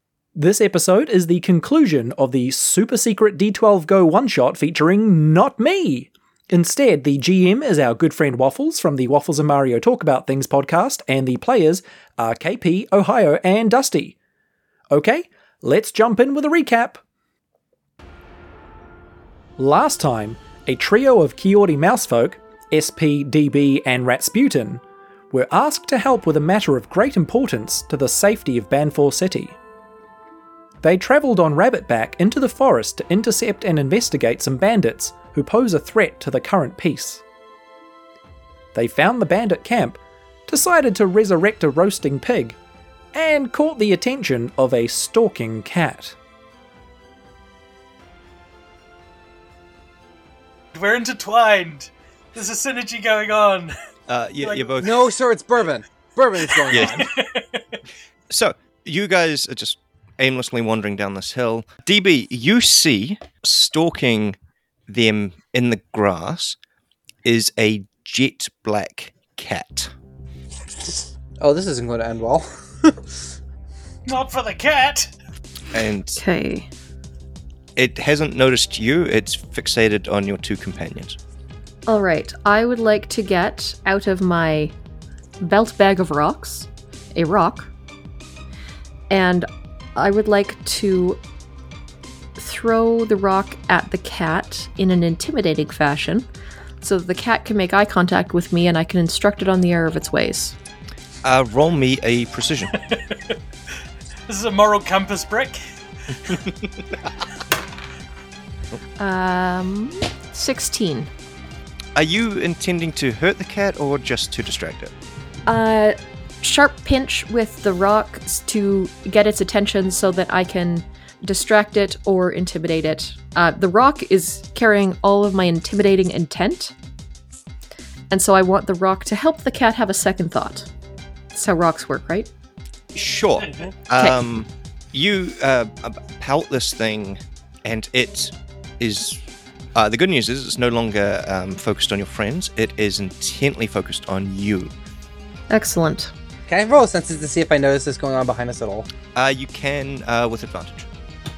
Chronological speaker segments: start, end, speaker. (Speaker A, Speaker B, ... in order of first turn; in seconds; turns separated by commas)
Speaker A: 0.4-14.2, Speaker A: 14.9-17.0, Speaker A: 19.6-29.6, Speaker A: 30.8-37.2, Speaker A: 38.7-42.6, Speaker A: 43.1-46.1, Speaker B: 50.7-53.7, Speaker C: 54.1-55.0, Speaker B: 54.4-54.7, Speaker D: 54.8-57.1, Speaker B: 56.5-57.8, Speaker C: 56.7-57.0, Speaker C: 58.3-66.6, Speaker C: 67.2-69.9, Speaker D: 70.8-73.2, Speaker B: 74.1-75.1, Speaker C: 75.7-76.2, Speaker E: 76.1-76.7, Speaker C: 77.8-81.2, Speaker E: 81.9-84.7, Speaker E: 85.4-87.7, Speaker E: 89.1-91.2, Speaker E: 92.4-96.3, Speaker E: 96.8-100.6, Speaker C: 101.2-102.7, Speaker B: 102.8-103.4, Speaker B: 104.3-106.4, Speaker E: 109.0-111.1, Speaker C: 112.0-114.9, Speaker E: 115.5-126.7, Speaker E: 128.1-130.7, Speaker E: 131.3-132.3, Speaker C: 132.9-139.2, Speaker C: 139.8-144.7, Speaker E: 145.5-146.1, Speaker D: 146.5-148.9, Speaker C: 149.2-150.9